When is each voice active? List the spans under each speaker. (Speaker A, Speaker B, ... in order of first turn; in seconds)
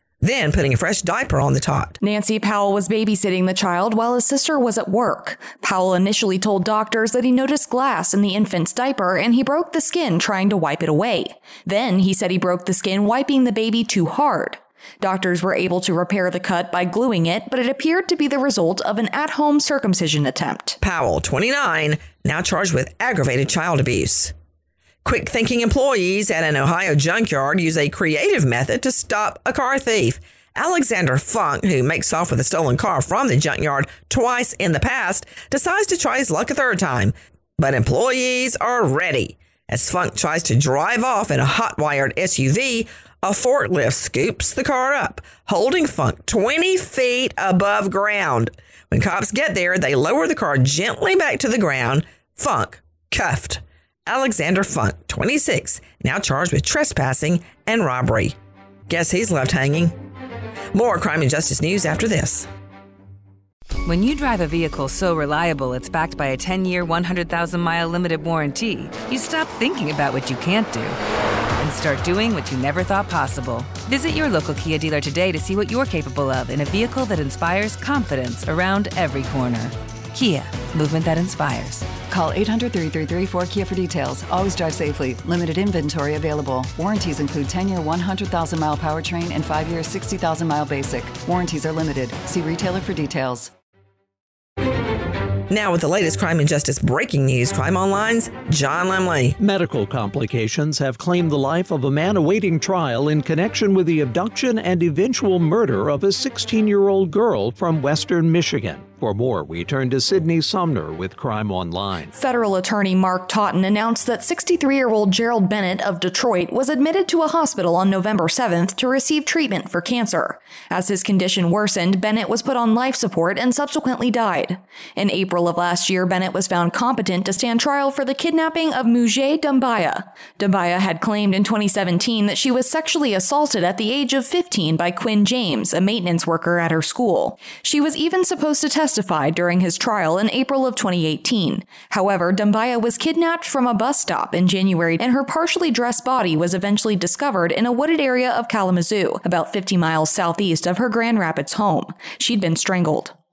Speaker A: 0.2-2.0, 20.8-24.3, 25.0-58.4, 58.9-59.9, 60.7-62.5, 95.5-99.4
Speaker B: 2.0-20.8, 112.1-153.2
Speaker C: 63.9-71.0, 71.6-82.0
Speaker D: 82.1-93.5
Speaker E: 99.4-112.1